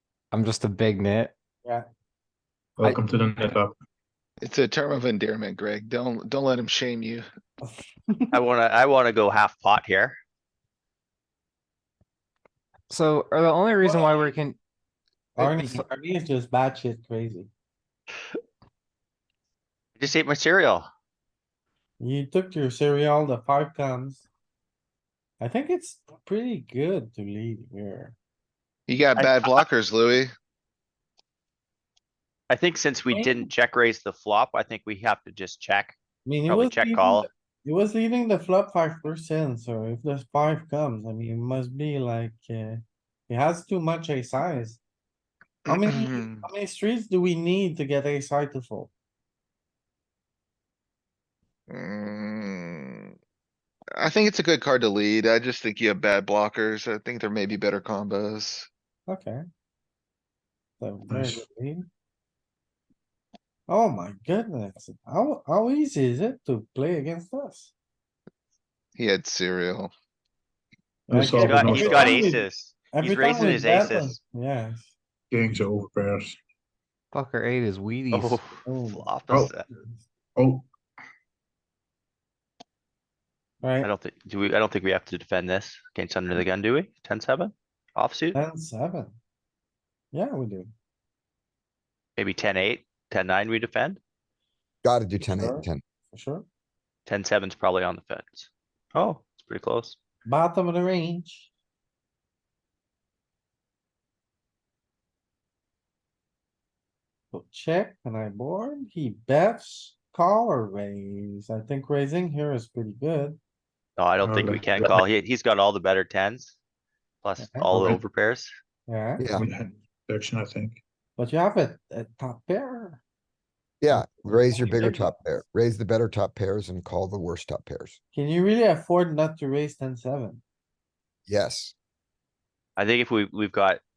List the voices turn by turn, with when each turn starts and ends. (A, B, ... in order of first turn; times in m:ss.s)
0:00.3-0:01.3 A
0:02.8-0:03.7 B
0:04.4-0:07.2 C
0:07.6-0:08.3 D
0:08.3-0:10.2 E
0:12.9-0:14.6 A
0:15.4-0:17.5 D
0:15.4-0:15.8 A
0:20.0-0:20.9 E
0:22.0-0:24.2 D
0:25.4-0:28.1 D
0:28.9-0:30.3 C
0:29.2-0:29.6 E
0:32.5-0:35.9 E
0:33.1-0:33.4 D
0:36.2-0:44.8 D
0:36.4-0:37.3 E
0:45.7-0:46.5 C
0:45.7-0:48.9 D
0:51.7-0:53.1 C
0:53.9-0:58.7 C
0:59.1-0:59.4 D
1:00.8-1:01.9 D
1:01.1-1:01.4 B
1:03.7-1:07.7 D
1:09.0-1:09.9 C
1:11.1-1:14.9 D
1:11.1-1:12.2 B
1:11.3-1:14.2 E
1:15.3-1:16.4 B
1:17.1-1:18.4 A
1:18.1-1:19.6 E
1:18.6-1:20.0 D
1:19.3-1:19.5 B
1:20.4-1:20.7 B
1:23.6-1:23.9 D
1:23.8-1:28.4 E
1:28.3-1:29.1 D
1:30.1-1:30.7 D
1:32.2-1:34.0 E
1:34.8-1:35.8 F
1:35.2-1:36.4 D
1:37.0-1:40.0 E
1:40.2-1:41.5 D
1:47.3-1:53.4 D
1:54.0-1:56.6 E
1:54.2-1:55.0 B
1:57.2-1:58.5 E
1:57.4-1:57.8 D
1:58.9-1:59.3 D
1:59.2-1:59.5 F
1:59.3-2:00.8 B
2:01.2-2:03.0 D
2:03.8-2:08.0 F
2:03.9-2:05.1 D
2:08.1-2:10.4 D
2:11.3-2:11.7 F
2:12.8-2:13.8 E